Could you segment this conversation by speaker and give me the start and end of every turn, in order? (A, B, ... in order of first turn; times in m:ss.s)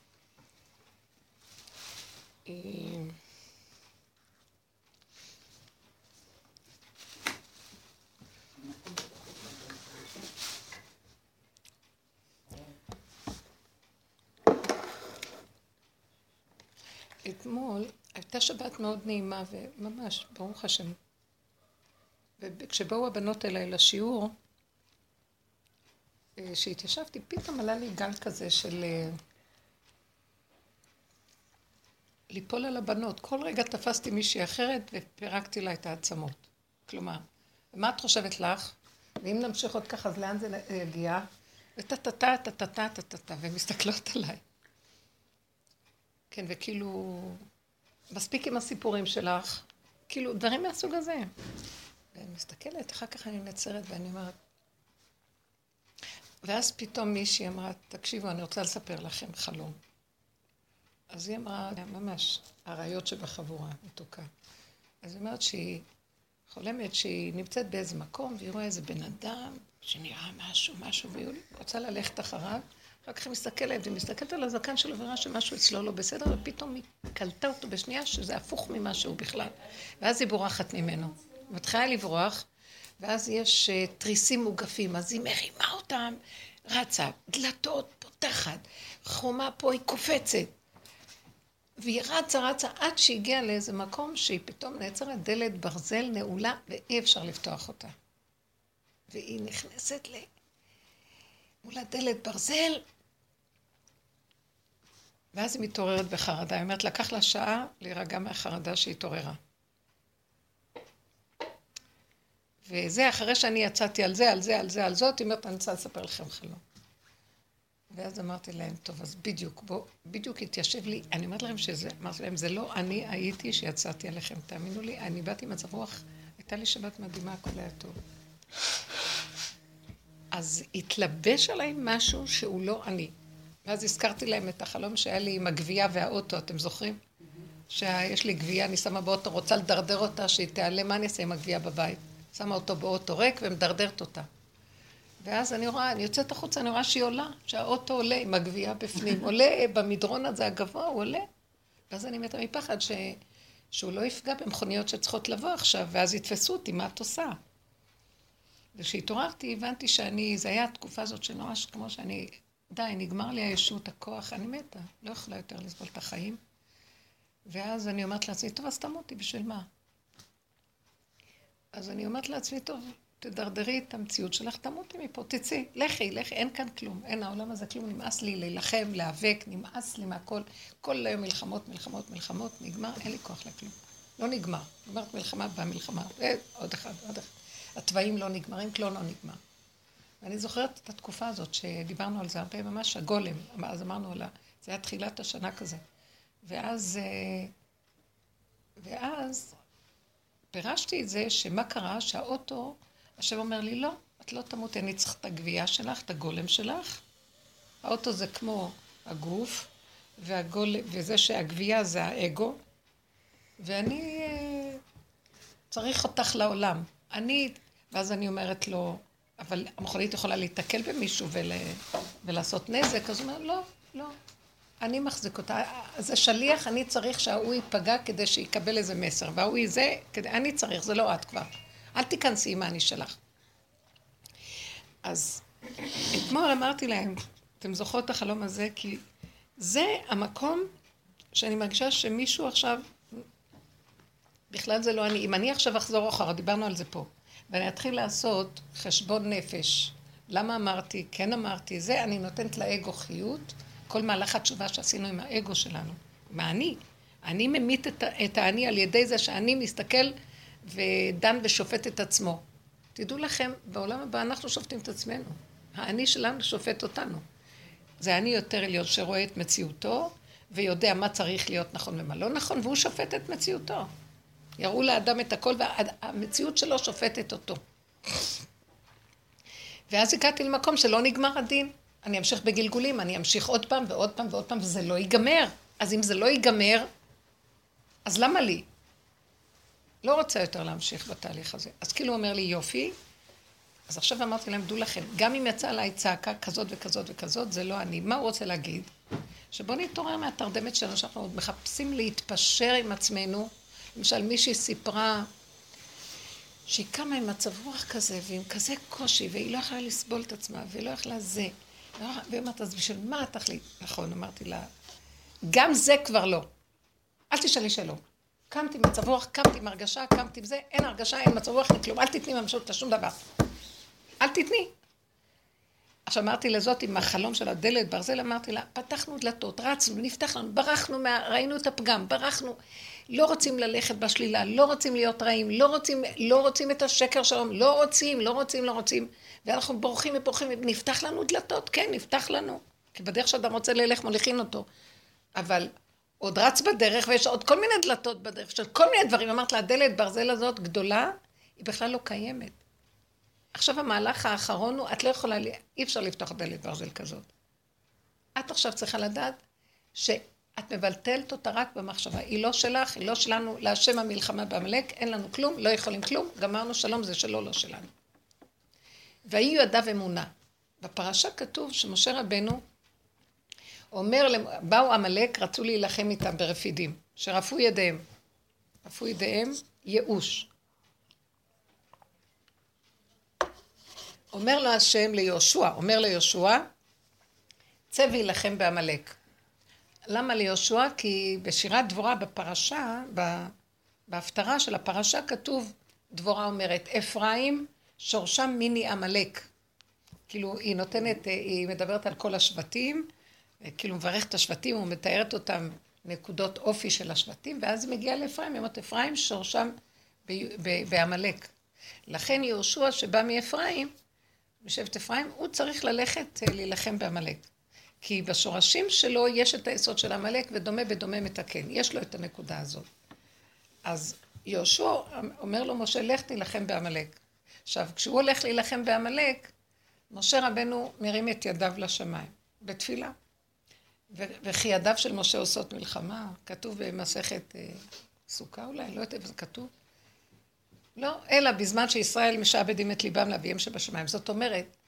0:02.4-0:03.2 A
0:17.2-0:21.0 A
0:22.4-0:24.3 A
0:26.4-0:29.2 A
0:32.3-0:41.3 A
0:41.8-0:44.4 A
0:46.3-0:47.4 A
0:48.1-0:51.3 A
0:52.1-0:54.4 A
0:56.4-0:59.8 A
1:01.1-1:04.3 A
1:05.0-1:05.9 A
1:06.5-1:22.5 A
1:23.0-1:30.5 A
1:31.8-1:37.9 A
1:39.1-1:40.3 A
1:41.6-1:42.8 A
1:45.3-1:49.4 A
1:52.7-1:56.6 A
1:57.9-2:08.0 A
2:10.3-2:13.1 A
2:13.7-2:17.0 A
2:17.7-2:24.3 A
2:25.2-2:31.2 A
2:31.9-2:33.2 A
2:33.7-2:37.4 A
2:38.7-2:46.4 A
2:47.4-2:49.7 A
2:51.7-3:09.4 A
3:10.2-3:15.8 A
3:16.4-3:17.5 A
3:18.8-3:19.5 A
3:20.5-3:27.0 A
3:27.8-3:32.6 A
3:33.6-3:34.8 A
3:35.7-3:44.1 A
3:44.8-3:53.2 A
3:55.0-3:59.0 A
3:59.6-4:00.7 A
4:01.3-4:03.2 A
4:04.5-4:22.4 A
4:22.9-4:27.2 A
4:28.0-4:33.9 A
4:34.6-4:37.6 A
4:39.9-4:46.9 A
4:48.1-4:48.7 A
4:50.0-4:52.9 A
4:53.9-4:58.9 A
4:59.5-5:05.3 A
5:06.7-5:14.7 A
5:15.4-5:16.5 A
5:17.3-5:23.2 A
5:24.2-5:24.7 A
5:26.1-5:32.6 A
5:33.1-5:44.7 A
5:45.4-5:52.6 A
5:53.5-5:57.3 A
5:58.4-5:59.4 A
6:00.0-6:07.9 A
6:09.2-6:10.3 A
6:10.8-6:12.6 A
6:13.9-6:18.0 A
6:18.8-6:20.5 A
6:24.3-6:26.7 A
6:27.9-6:29.2 A
6:30.1-6:33.5 A
6:34.1-6:39.5 A
6:40.3-6:43.1 A
6:43.6-6:49.7 A
6:50.3-6:51.5 A
6:52.1-6:53.9 A
6:54.6-6:57.5 A
6:58.0-7:02.9 A
7:03.8-7:07.2 A
7:07.7-7:09.5 A
7:10.1-7:13.1 A
7:14.1-7:19.7 A
7:21.0-7:24.7 A